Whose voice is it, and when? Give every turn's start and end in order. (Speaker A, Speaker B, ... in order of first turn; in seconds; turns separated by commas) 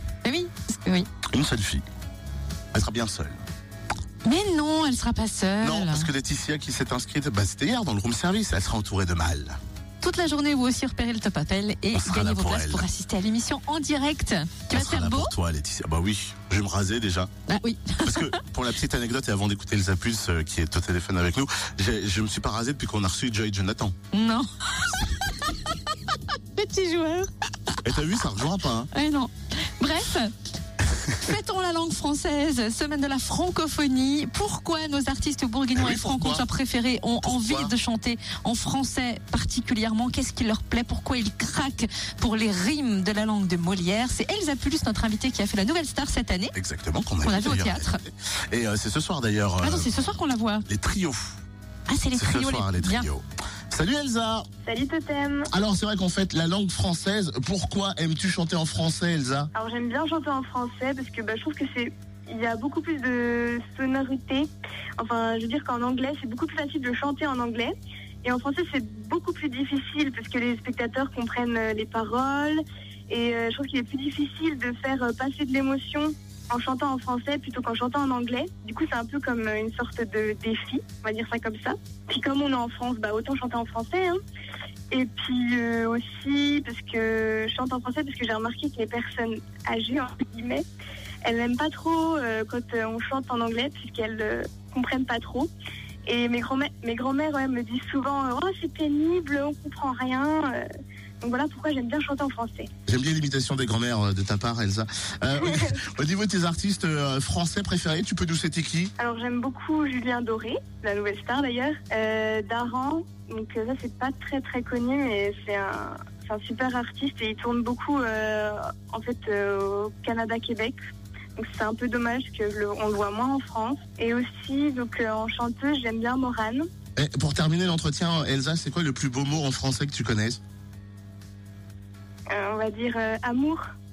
Speaker A: 0.2-1.1, Speaker B: 1.3-1.8, Speaker B: 2.7-3.4, Speaker A: 4.2-6.1, Speaker B: 5.6-9.6, Speaker A: 10.0-15.3, Speaker B: 11.9-12.9, Speaker B: 14.7-17.3, Speaker A: 17.5-18.4, Speaker B: 18.0-23.9, Speaker A: 24.1-25.7, Speaker A: 26.5-27.3, Speaker B: 27.8-28.9, Speaker A: 28.9-30.3, Speaker A: 31.2-46.5, Speaker B: 35.7-36.5, Speaker B: 37.2-37.7, Speaker B: 46.5-50.0, Speaker A: 47.2-48.0, Speaker A: 49.6-50.6, Speaker B: 50.7-51.4, Speaker A: 51.9-53.1, Speaker B: 52.1-54.5, Speaker C: 54.6-55.5, Speaker B: 55.5-59.5, Speaker C: 59.5-84.2, Speaker C: 84.9-90.6, Speaker C: 91.2-95.5, Speaker C: 96.0-100.6, Speaker C: 101.2-102.7, Speaker B: 102.9-108.9, Speaker C: 105.4-105.7, Speaker C: 109.0-120.8, Speaker C: 121.3-126.7, Speaker B: 127.0-130.4, Speaker C: 132.3-133.7